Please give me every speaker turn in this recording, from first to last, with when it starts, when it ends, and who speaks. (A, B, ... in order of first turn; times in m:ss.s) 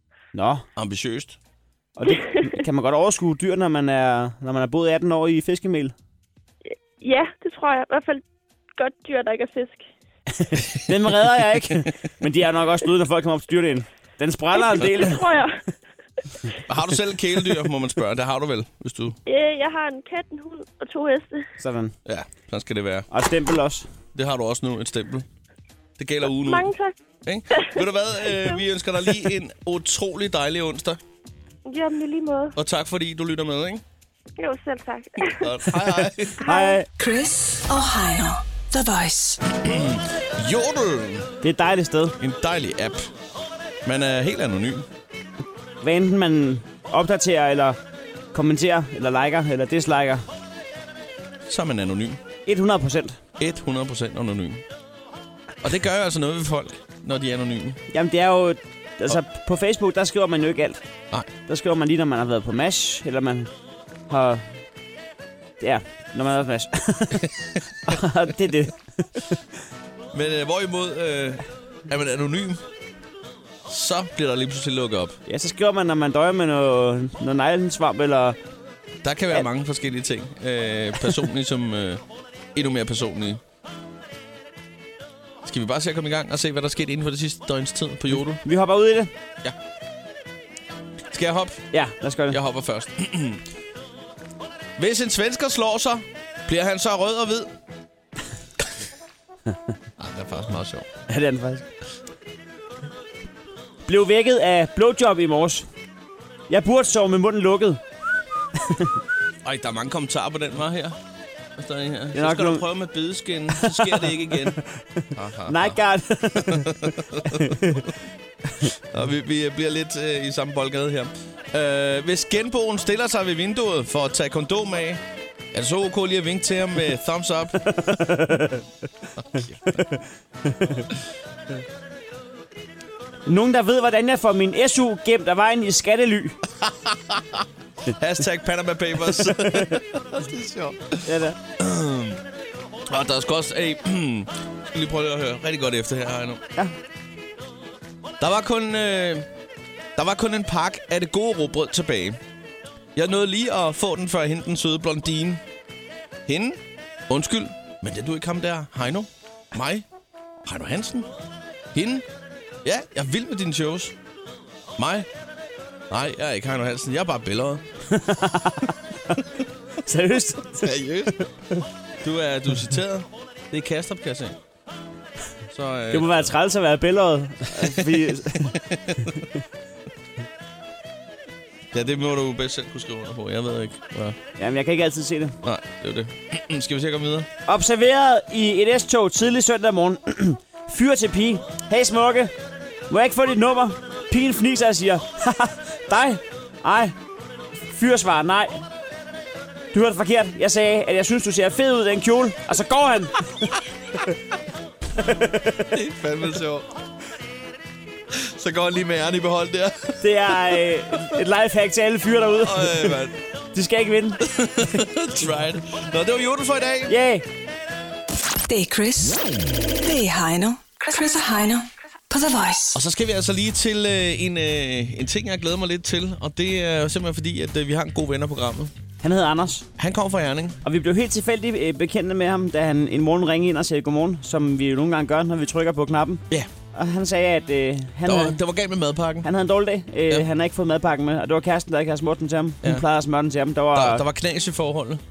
0:00.3-0:00.6 A
0:00.8-0:01.4 B
0:02.0-0:06.0 A
0:02.1-0:02.5 C
0:07.0-0:08.2 C
0:08.8-0:09.9 C
0:10.4-0:15.2 A
0:14.5-0:15.6 C
0:16.7-0:19.2 B
0:19.3-0:21.4 C
0:21.6-0:22.0 A
0:22.0-0:23.1 B
0:23.1-0:23.9 A
0:24.1-0:25.3 B
0:26.0-0:26.7 B
0:26.4-0:26.9 C
0:27.3-0:31.0 B
0:31.6-0:32.6 C
0:32.6-0:33.8 B
0:34.4-0:35.6 C
0:35.2-0:36.4 B
0:36.0-0:36.9 A
0:36.4-0:36.8 C
0:37.0-0:39.5 D
0:39.6-0:41.3 B
0:41.4-0:42.2 A
0:42.2-0:43.1 B
0:43.8-0:44.9 B
0:45.8-0:47.8 A
0:48.3-0:50.2 A
0:51.5-0:52.2 B
0:52.5-0:53.2 A
0:53.4-0:54.6 B
0:55.6-0:57.8 B
0:57.9-1:00.8 A
1:01.5-1:03.5 A
1:04.1-1:04.6 A
1:05.6-1:07.3 A
1:07.2-1:07.9 B
1:07.8-1:09.4 A
1:10.1-1:12.6 B
1:13.7-1:15.2 B
1:15.3-1:18.4 A
1:19.0-1:22.0 B
1:22.6-1:23.4 B
1:25.4-1:28.4 B
1:28.4-1:29.1 A
1:31.1-1:31.7 B
1:31.7-1:32.4 A
1:32.3-1:33.4 B
1:34.8-1:37.5 B
1:40.0-1:40.9 B
1:41.1-1:41.7 A
1:43.9-1:45.7 A
1:46.5-1:47.8 A
1:48.6-1:49.0 A
1:49.4-1:51.0 B
1:51.6-1:54.6 B
1:52.1-1:52.7 A
1:53.6-1:54.1 A
1:55.0-1:57.9 A
1:55.2-1:55.8 B
1:56.4-1:57.9 B
1:58.9-2:05.0 B
2:05.5-2:07.7 B
2:07.7-2:08.6 A
2:09.2-2:09.8 B
2:09.7-2:10.9 A
2:13.3-2:16.4 A
2:16.6-2:22.2 B
2:19.4-2:19.8 A
2:21.1-2:21.4 A
2:22.9-2:26.4 B
2:28.2-2:29.3 B
2:30.0-2:32.2 B
2:33.0-2:35.4 B
2:36.3-2:39.9 B
2:40.4-2:41.1 B
2:41.7-2:42.1 B
2:42.6-2:44.0 B
2:44.8-2:45.1 B
2:45.9-2:47.6 B
2:47.9-2:49.2 A
2:49.8-2:51.6 A
2:50.6-2:51.2 B
2:52.0-2:54.4 B
2:55.5-2:56.3 B
2:55.9-2:58.6 A
2:57.5-2:59.2 B
3:01.7-3:04.2 B
3:04.4-3:05.4 A
3:05.4-3:07.3 B
3:07.5-3:12.3 A
3:12.9-3:17.0 A
3:17.7-3:18.6 A
3:19.7-3:23.5 A
3:25.0-3:25.7 A
3:25.6-3:26.7 B
3:28.1-3:31.2 B
3:30.0-3:33.0 A
3:32.4-3:33.2 B
3:33.5-3:34.2 A
3:34.2-3:37.0 B
3:36.9-3:37.2 A
3:38.5-3:39.2 D
3:39.8-3:42.8 D
3:42.7-3:48.7 B
3:49.0-3:49.7 A
3:49.8-3:50.6 B
3:50.6-3:58.4 A
3:58.0-3:59.3 B
3:59.2-4:04.0 A
4:03.7-4:05.0 B